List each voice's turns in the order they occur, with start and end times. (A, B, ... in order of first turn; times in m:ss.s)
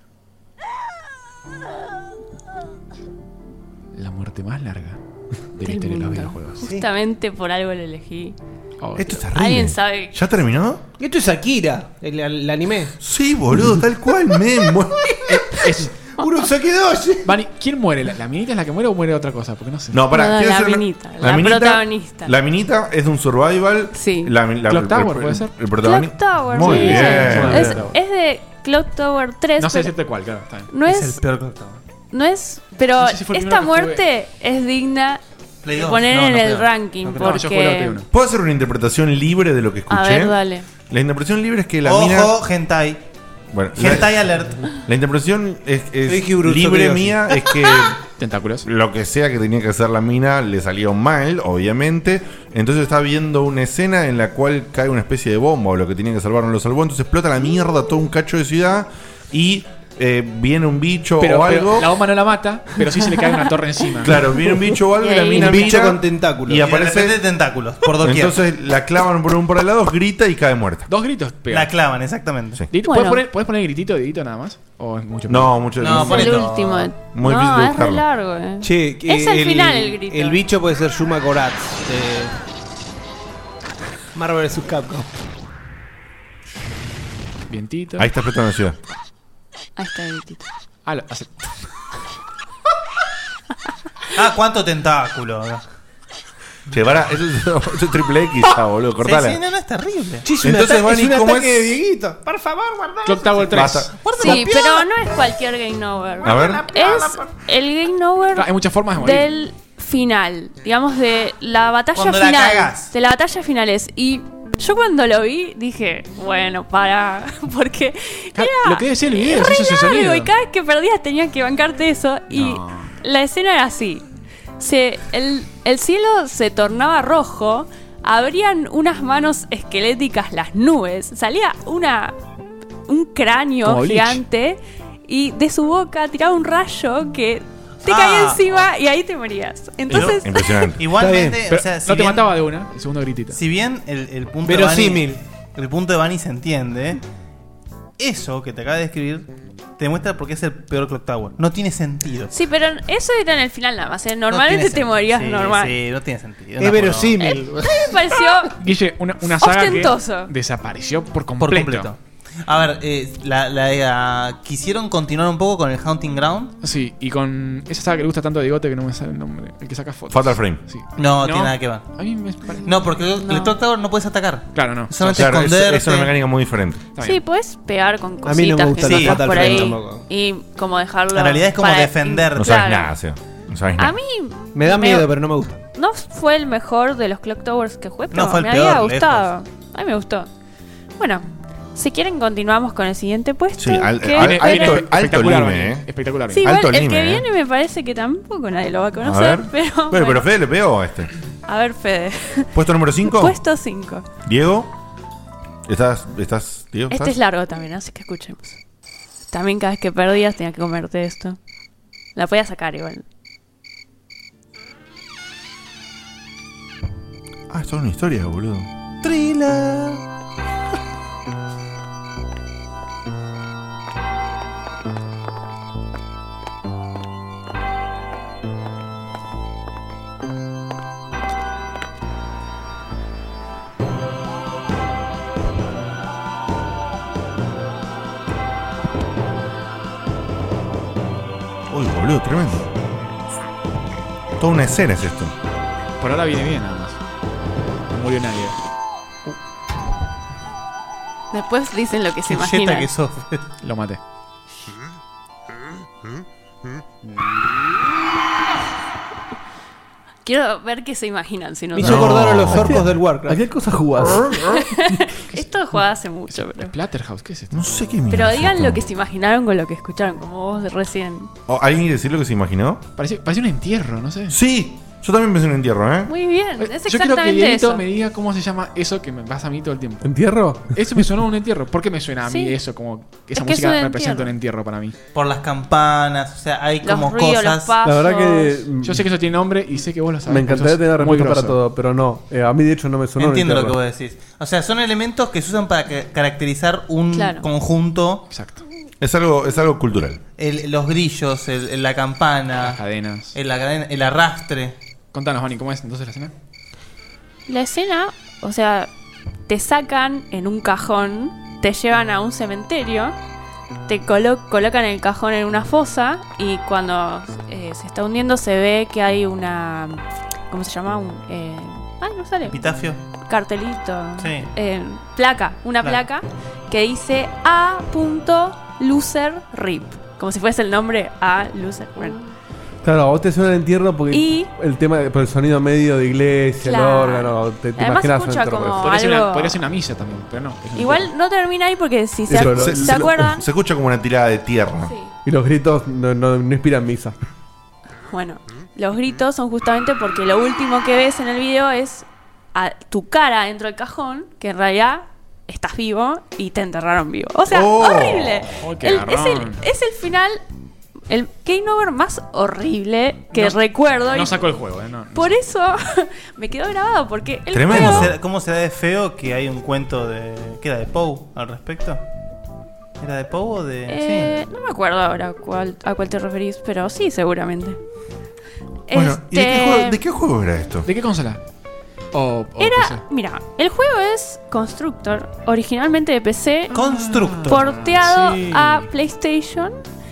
0:03.9-0:05.0 A
0:05.5-0:06.7 A
0:05.6-0:08.4 B
0:08.8-0:09.2 A
0:09.0-0:10.8 C
0:09.2-0:10.1 B
0:11.0-0:12.9 D
0:13.0-0:15.1 C
0:15.3-0:16.0 A
0:16.2-0:17.3 D
0:17.2-0:20.1 A
0:19.9-0:27.7 C
0:20.1-0:22.3 B
0:23.9-0:24.3 B
0:24.6-0:25.6 A
0:25.8-0:29.9 B
0:26.6-0:28.0 A
0:27.4-0:27.7 E
0:29.6-0:30.7 A
0:30.7-0:31.2 B
0:30.8-0:31.8 F
0:32.1-0:38.0 B
0:33.0-0:34.0 A
0:35.6-0:36.7 F
0:37.0-0:38.1 A
0:38.1-0:42.3 C
0:39.9-0:40.7 B
0:41.8-0:43.0 F
0:43.5-0:44.1 C
0:43.7-0:44.6 F
0:44.9-0:48.0 C
0:46.0-0:47.3 D
0:48.2-0:48.7 A
0:48.6-1:01.9 C
1:01.2-1:04.4 A
1:04.0-1:07.1 C
1:04.8-1:05.8 B
1:05.3-1:06.6 D
1:06.5-1:08.4 F
1:08.0-1:10.9 C
1:10.9-1:11.7 A
1:11.5-1:12.6 F
1:12.7-1:16.4 A
1:12.8-1:13.2 B
1:15.3-1:16.5 C
1:15.8-1:16.9 F
1:15.9-1:20.4 B
1:17.1-1:18.0 C
1:18.6-1:22.3 D
1:24.1-1:25.1 D
1:27.5-1:28.1 A
1:28.0-1:28.8 C
1:29.8-1:30.5 B
1:30.8-1:31.5 A
1:34.1-1:35.6 F
1:36.7-1:39.4 C
1:39.0-1:40.2 F
1:40.2-1:44.8 D
1:40.4-1:41.8 C
1:43.0-1:43.9 A
1:43.5-1:43.9 C
1:44.1-2:04.0 B
1:46.2-1:46.6 C
1:46.3-1:47.2 D
1:48.3-1:49.3 A
1:51.9-1:52.9 F
1:58.3-2:00.3 A
2:02.3-2:02.7 A
2:04.6-2:12.1 B
2:12.9-2:20.8 B
2:13.6-2:14.2 A
2:17.8-2:18.7 F
2:19.9-2:20.2 F
2:19.9-2:20.8 C
2:20.8-2:22.3 F
2:21.0-2:23.4 A
2:23.3-2:27.0 F
2:24.4-2:25.2 D
2:28.0-2:32.3 F
2:32.3-2:35.8 B
2:34.3-2:37.4 F
2:36.6-2:37.8 D
2:37.2-2:38.6 B
2:38.6-2:41.9 A
2:39.4-2:40.3 B
2:41.4-2:46.5 F
2:46.6-2:53.0 A
2:50.1-2:50.6 C
2:51.0-2:51.9 F
2:52.6-2:56.1 F
2:53.2-2:53.6 B
2:54.5-2:55.4 A
2:55.1-2:56.9 C
2:56.9-2:57.2 A
2:57.0-3:02.9 B
2:58.2-3:00.1 D
2:58.8-2:59.6 F
3:01.1-3:02.6 F
3:02.4-3:03.9 C
3:03.8-3:05.1 B
3:04.5-3:05.6 D
3:05.7-3:10.3 B
3:08.1-3:09.3 F
3:11.0-3:14.9 B
3:13.6-3:15.9 C
3:14.1-3:16.6 A
3:16.3-3:20.3 B
3:16.4-3:17.2 C
3:19.0-3:21.1 C
3:21.4-3:24.1 B
3:22.5-3:23.4 C
3:24.2-3:24.7 C
3:25.6-3:27.2 C
3:26.9-3:28.6 B
3:29.3-3:31.4 B
3:32.2-3:33.0 B
3:37.5-3:38.7 C
3:39.0-3:40.0 F
4:01.7-4:02.7 C
4:04.4-4:05.3 C
4:06.0-4:07.0 A
4:07.9-4:08.6 A
4:11.3-4:12.9 B
4:12.2-4:13.4 F
4:13.6-4:14.0 A
4:20.2-4:22.3 B
4:21.7-4:23.4 D
4:21.8-4:22.9 C
4:22.7-4:24.6 E
4:24.3-4:26.7 B
4:25.3-4:27.6 A
4:27.5-4:28.8 C
4:28.1-4:31.3 B
4:31.5-4:32.8 C
4:33.0-4:34.4 A
4:34.3-4:36.1 C
4:36.0-4:37.8 B
4:36.6-4:44.9 A
4:40.0-4:41.0 E
4:42.2-4:42.6 B
4:43.3-4:44.3 B
4:45.1-4:47.8 F
4:46.8-4:48.6 B
4:47.8-4:49.1 E
4:48.8-4:51.6 A
4:50.2-4:53.8 E
4:53.2-4:58.2 F
4:57.1-4:57.5 B
4:58.3-4:58.6 A
4:59.0-5:00.2 C
5:00.4-5:02.8 F
5:02.6-5:03.4 A
5:03.3-5:04.7 F
5:05.1-5:06.3 A
5:07.5-5:08.9 B
5:09.5-5:13.1 B
5:13.9-5:22.6 B
5:22.5-5:23.0 F
5:23.3-5:32.2 B
5:24.2-5:24.5 F
5:32.8-5:38.9 E
5:34.1-5:34.5 B
5:36.6-5:39.6 B
5:38.7-5:41.1 A
5:40.7-5:43.4 B
5:42.3-5:43.2 E
5:42.4-5:44.9 C
5:44.8-5:45.1 B
5:45.2-5:47.1 E
5:48.1-6:00.4 B
5:57.5-5:58.4 C
5:58.6-5:59.6 A
6:01.1-6:04.5 B
6:03.3-6:05.4 A
6:05.1-6:08.1 B
6:07.5-6:08.2 C
6:07.7-6:12.0 F
6:13.0-6:14.3 F
6:13.9-6:17.8 B
6:18.9-6:20.0 B
6:18.9-6:20.9 C
6:20.8-6:21.4 A
6:22.1-6:23.0 A
6:22.6-6:29.8 B
6:26.7-6:27.6 F
6:26.8-6:28.9 A